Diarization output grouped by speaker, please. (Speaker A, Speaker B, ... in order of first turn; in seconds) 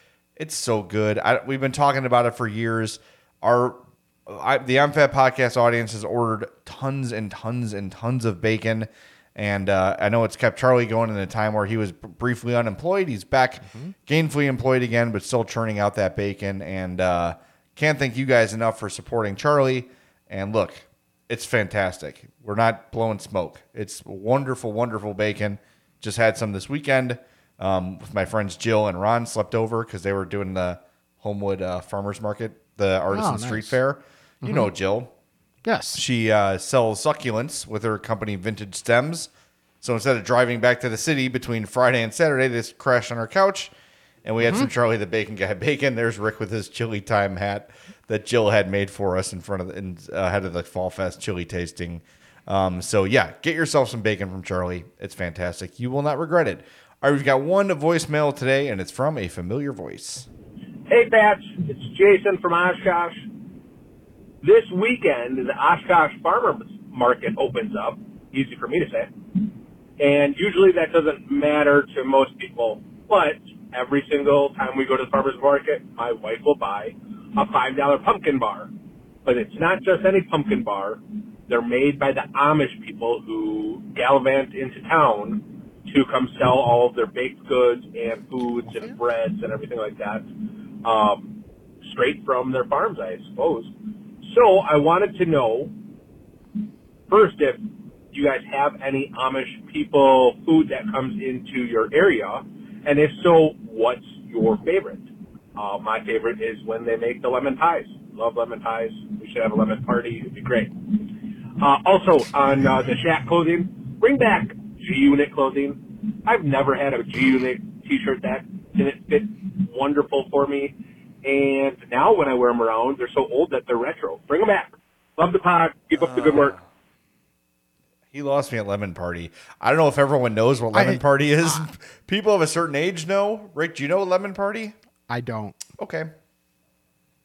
Speaker A: 0.4-35.1, 35.9-39.3, 39.8-43.7, 44.2-60.3, 126.0-126.6, 128.1-134.7, 135.8-136.1
Speaker B: 13.6-13.9, 33.1-33.8, 34.4-34.7, 35.6-36.0, 44.4-44.7, 130.7-131.7, 135.1-135.6
Speaker C: 60.9-63.3, 64.4-69.5, 70.0-78.7, 79.2-90.2, 90.8-95.7, 97.1-126.5